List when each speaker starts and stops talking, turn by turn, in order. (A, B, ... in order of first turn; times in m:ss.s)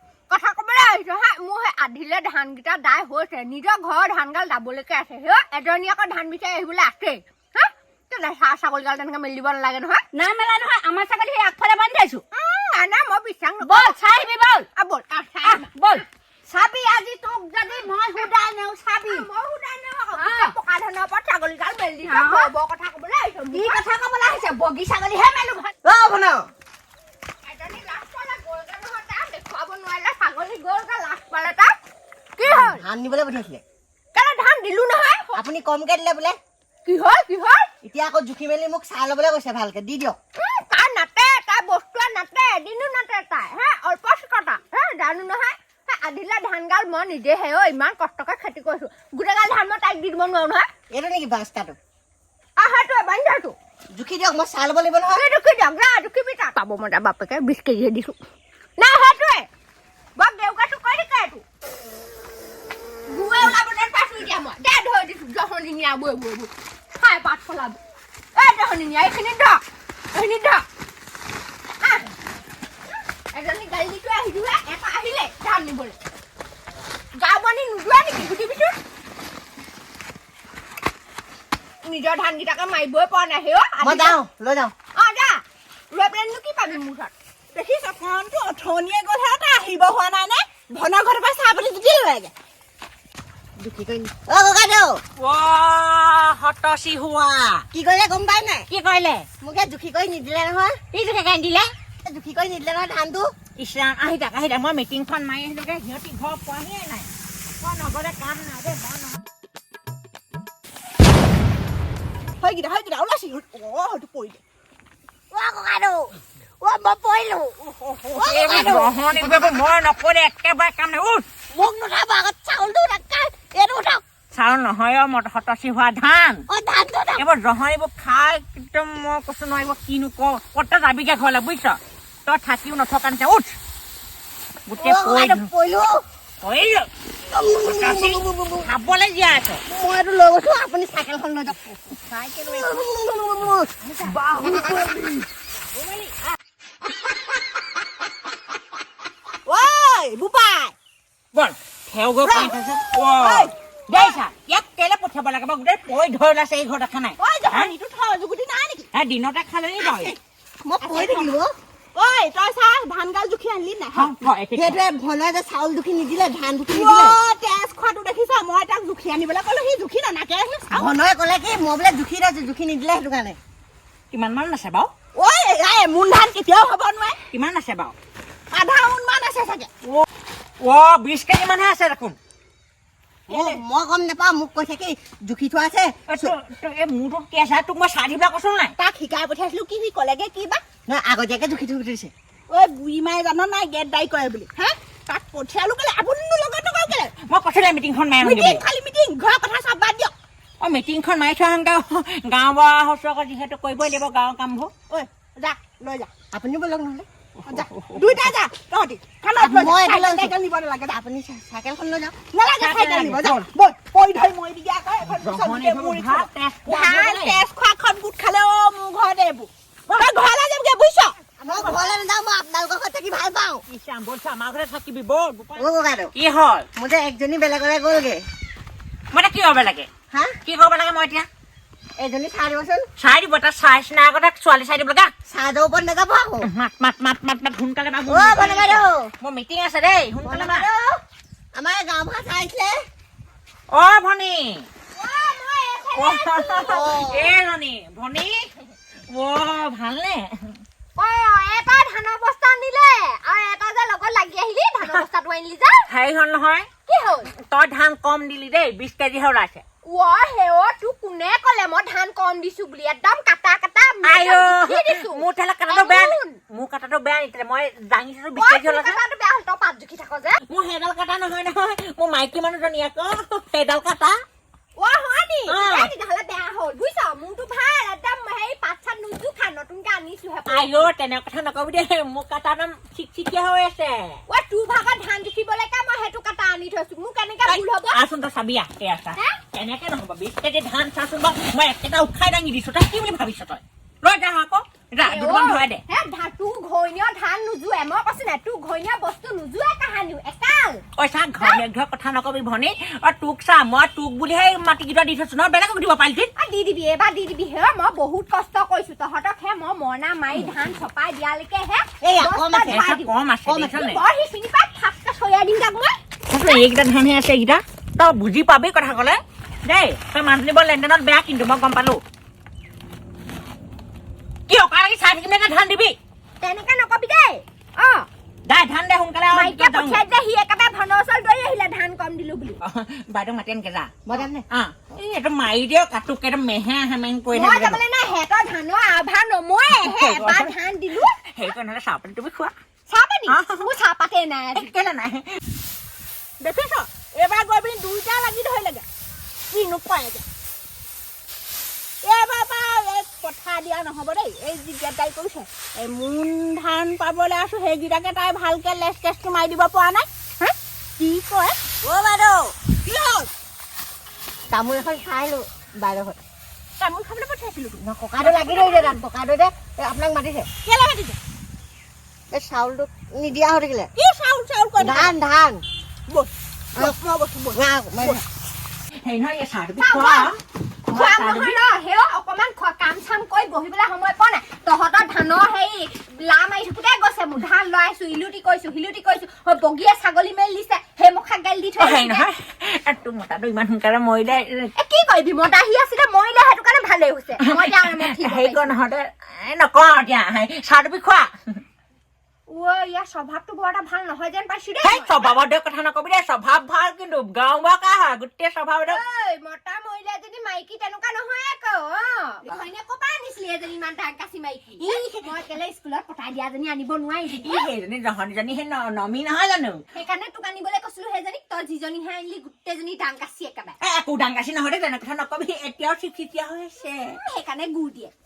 0:00.3-0:10.0 A
0:10.1-0:12.2 B
0:12.3-0:14.0 A
0:13.6-0:14.7 B
0:14.8-0:16.0 A
0:15.4-0:19.3 B
0:17.6-0:18.3 A
0:19.0-0:23.8 A
0:20.1-0:20.5 B
0:22.1-0:22.5 B
0:23.5-0:25.7 B
0:25.8-0:26.5 C
0:27.4-0:31.8 A
0:32.4-0:32.8 A
0:32.4-0:33.6 C
0:34.1-0:35.4 A
0:35.3-0:36.4 C
0:36.8-0:37.7 A
0:37.8-0:40.2 C
0:40.4-0:50.7 A
0:50.9-0:51.8 C
0:52.6-0:53.6 A
0:53.9-0:55.2 C
0:55.1-0:58.2 A
0:58.8-0:59.5 A
1:00.2-1:01.4 A
1:03.1-1:07.8 A
1:08.3-1:10.6 A
1:11.8-1:12.1 A
1:13.3-1:16.0 A
1:17.1-1:18.8 A
1:21.8-1:24.2 A
1:23.8-1:24.7 C
1:24.9-1:27.1 A
1:27.5-1:32.3 D
1:33.6-1:35.0 C
1:35.2-1:37.6 E
1:37.7-1:38.7 C
1:38.7-1:39.3 E
1:39.4-1:40.8 C
1:40.9-1:41.7 E
1:42.0-1:43.3 C
1:43.6-1:49.2 E
1:52.4-1:54.4 D
1:55.3-1:59.5 C
1:58.2-2:01.2 E
2:01.5-2:04.0 C
2:04.3-2:06.4 E
2:06.5-2:07.2 C
2:07.2-2:13.6 E
2:14.7-2:15.5 E
2:14.8-2:16.0 C
2:16.4-2:16.9 E
2:17.3-2:18.7 C
2:17.4-2:19.6 E
2:19.6-2:21.7 C
2:22.1-2:22.8 E
2:22.4-2:25.2 C
2:23.8-2:24.2 E
2:25.7-2:26.2 E
2:29.4-2:30.7 D
2:31.3-2:37.7 E
2:32.2-2:34.2 D
2:37.2-2:38.9 D
2:38.9-2:40.1 E
2:39.8-2:40.2 D
2:40.6-2:41.5 C
2:40.8-2:41.3 D
2:41.9-2:44.1 D
2:43.9-2:44.8 E
2:44.5-2:47.2 C
2:46.7-2:50.9 D
2:50.7-2:53.4 C
2:54.1-2:54.9 E
2:55.1-2:57.2 D
2:57.3-2:57.9 E
2:58.5-2:59.7 D
3:00.6-3:02.2 E
3:03.3-3:06.3 C
3:03.3-3:03.6 D
3:06.1-3:08.7 E
3:08.8-3:10.6 D
3:10.9-3:12.1 C
3:12.5-3:17.1 D
3:17.2-3:18.6 E
3:18.2-3:20.1 D
3:20.6-3:24.7 E
3:24.9-3:26.1 D
3:26.3-3:27.1 C
3:27.4-3:31.0 D
3:27.5-3:28.3 E
3:29.4-3:30.4 C
3:30.9-3:32.2 C
3:32.3-3:41.2 D
3:32.6-3:33.5 E
3:35.0-3:37.4 E
3:41.4-3:43.6 C
3:41.4-3:41.9 E
3:43.7-3:46.7 E
3:45.6-3:46.1 C
3:46.8-3:48.2 C
3:49.1-3:49.9 E
3:50.1-3:50.4 C
3:50.4-3:51.3 E
3:52.0-3:52.9 C
3:53.0-3:55.1 E
3:55.2-3:56.5 C
3:56.4-4:00.6 E
3:58.1-3:59.1 C
4:00.2-4:01.0 C
4:01.5-4:02.8 C
4:03.7-4:04.7 E
4:04.9-4:07.0 A
4:05.9-4:08.5 E
4:06.6-4:07.3 C
4:09.1-4:10.6 E
4:11.0-4:15.9 A
4:15.9-4:16.7 E
4:16.9-4:17.3 A
4:17.3-4:19.6 E
4:19.8-4:26.4 A
4:24.0-4:29.0 E
4:28.4-4:30.4 A
4:30.5-4:34.2 E
4:34.8-4:40.9 A
4:35.5-4:35.9 E
4:40.5-4:44.2 E
4:44.3-4:48.0 A
4:47.4-4:55.8 E
4:55.0-5:00.8 A
5:01.0-5:06.3 E
5:06.4-5:13.1 A
5:12.0-5:12.8 C
5:12.7-5:14.0 E
5:13.4-5:13.8 C
5:13.7-5:16.6 A
5:16.3-5:22.0 E
5:24.5-5:26.0 E
5:26.4-5:28.1 A
5:28.4-5:30.0 E
5:29.3-5:32.6 A
5:32.6-5:33.9 E
5:34.0-5:34.4 C
5:34.5-5:37.8 E
5:37.3-5:41.2 A
5:39.7-5:40.5 E
5:41.2-5:42.5 E
5:42.9-5:44.7 A
5:43.3-5:43.7 E
5:44.5-5:45.4 E
5:46.4-5:48.8 D
5:49.5-5:50.2 A
5:52.0-6:00.1 D
6:01.0-6:03.3 D
6:04.5-6:06.2 C
6:06.8-6:09.0 D
6:07.8-6:10.5 C
6:10.6-6:11.2 D
6:12.3-6:13.9 C
6:14.0-6:15.1 D
6:14.8-6:15.6 C
6:16.1-6:18.2 D
6:17.5-6:18.2 C
6:19.0-6:21.6 E
6:19.8-6:20.3 A
6:20.9-6:32.2 A
6:31.8-6:34.7 E
6:34.8-6:38.7 A
6:37.4-6:41.3 E
6:42.5-6:45.3 A
6:44.8-6:49.0 E
6:48.8-6:57.7 A
6:54.8-6:55.3 E
6:57.3-6:59.8 E
6:59.9-7:03.8 A
7:03.8-7:07.2 E
7:07.2-7:08.1 A